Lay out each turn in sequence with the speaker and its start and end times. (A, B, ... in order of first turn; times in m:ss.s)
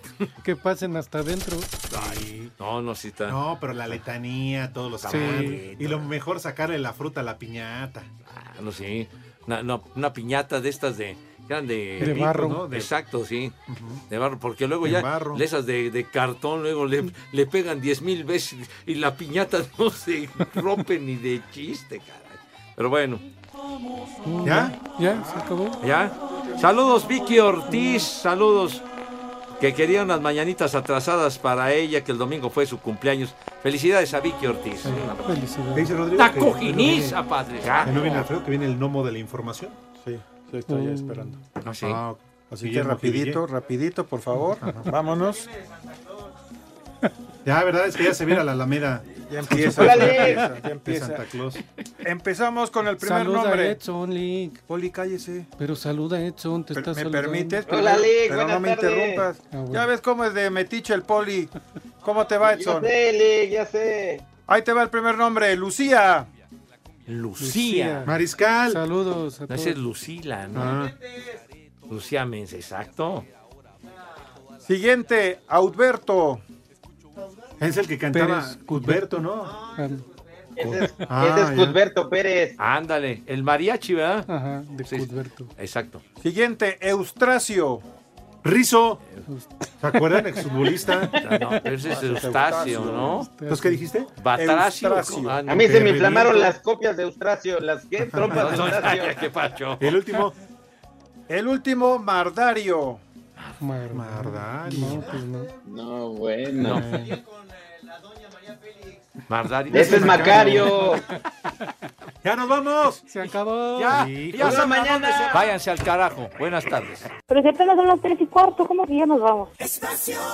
0:00.4-0:01.7 A
0:01.9-0:03.4 B
0:01.9-0:02.5 C
0:03.3-0:08.1 C
0:05.0-0:06.1 B
0:05.1-0:05.6 A
0:08.3-0:13.6 B
0:12.0-0:12.9 C
0:12.0-0:12.6 A
0:13.7-0:14.0 C
0:14.1-0:23.2 B
0:14.8-0:15.4 C
0:24.2-0:25.8 A
0:24.4-0:24.8 C
0:25.8-0:28.8 B
0:27.7-0:28.1 A
0:29.6-0:35.2 B
0:34.8-0:35.9 A
0:35.7-0:37.2 C
0:36.2-0:38.3 B
0:37.8-0:39.8 C
0:40.0-0:41.3 D
0:40.6-0:41.4 A
0:41.6-0:42.0 B
0:41.8-0:43.4 C
0:42.5-0:45.5 D
0:47.4-0:51.6 C
0:49.2-0:51.2 D
0:49.7-0:50.0 A
0:49.8-0:50.5 E
0:52.0-0:53.8 D
0:53.0-0:54.6 A
0:54.7-0:55.5 D
0:55.6-0:57.6 A
0:56.7-1:01.5 D
0:57.7-0:59.2 E
0:59.5-0:59.9 A
1:02.0-1:02.9 D
1:02.4-1:04.3 E
1:04.5-1:06.3 D
1:07.1-1:08.0 B
1:07.4-1:09.8 A
1:08.0-1:08.8 C
1:09.5-1:10.8 B
1:10.5-1:10.9 C
1:11.9-1:13.2 B
1:14.6-1:16.4 D
1:17.6-1:19.6 C
1:18.1-1:19.2 A
1:19.8-1:20.0 A
1:20.6-1:22.6 E
1:20.6-1:21.8 C
1:22.6-1:24.3 B
1:24.3-1:25.5 A
1:24.9-1:26.0 B
1:26.2-1:27.8 D
1:28.4-1:29.0 C
1:29.3-1:29.5 A
1:29.8-1:31.2 C
1:31.2-1:33.3 B
1:31.9-1:33.2 D
1:32.9-1:33.8 A
1:33.5-1:34.1 C
1:34.2-1:36.1 B
1:34.4-1:35.4 D
1:35.5-1:39.1 E
1:35.5-1:36.6 C
1:38.1-1:38.7 C
1:38.4-1:39.9 B
1:39.8-1:40.4 C
1:41.3-1:43.0 D
1:43.6-1:45.5 A
1:43.9-1:45.2 C
1:45.6-1:46.8 E
1:46.6-1:47.1 C
1:49.3-1:50.6 B
1:49.7-1:51.0 E
1:49.8-1:50.7 C
1:52.2-1:53.0 C
1:53.1-1:54.0 A
1:53.8-1:57.1 B
1:53.9-1:54.7 C
1:54.4-1:55.5 E
1:57.3-1:59.5 F